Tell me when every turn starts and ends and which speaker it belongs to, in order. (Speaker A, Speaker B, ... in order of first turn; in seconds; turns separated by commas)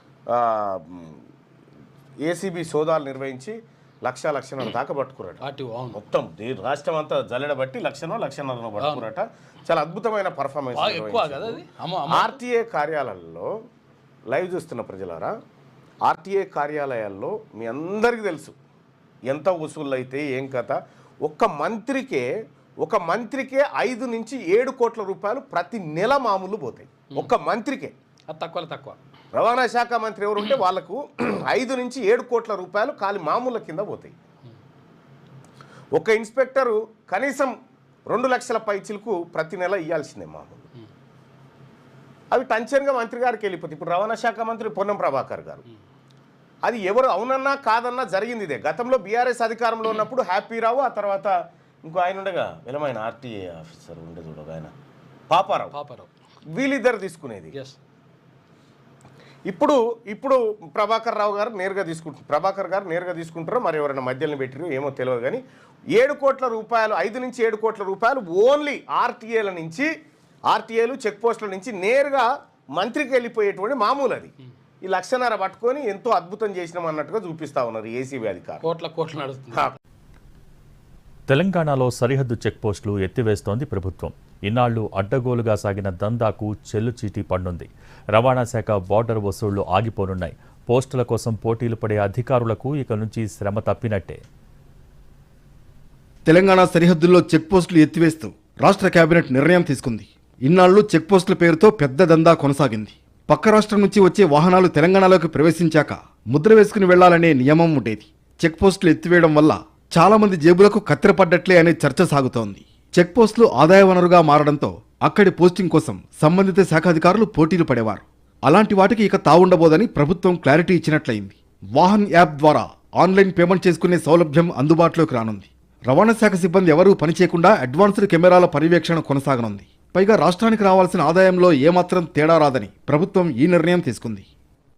Speaker A: 0.3-1.2, Speaker A: 2.2-13.5, Speaker B: 5.4-6.0, Speaker B: 8.8-9.1, Speaker B: 10.7-12.4, Speaker A: 14.3-15.3, Speaker A: 16.1-18.6, Speaker A: 19.3-22.3, Speaker A: 22.8-27.9, Speaker B: 28.3-29.0, Speaker A: 29.3-34.1, Speaker A: 36.0-37.5, Speaker A: 38.1-40.7, Speaker A: 42.3-45.6, Speaker A: 46.6-54.7, Speaker A: 55.3-55.8, Speaker B: 55.7-56.1, Speaker A: 56.5-57.6, Speaker A: 59.5-65.4, Speaker A: 66.0-69.9, Speaker A: 70.5-78.7, Speaker B: 78.6-79.8, Speaker C: 81.3-94.2, Speaker D: 96.3-134.2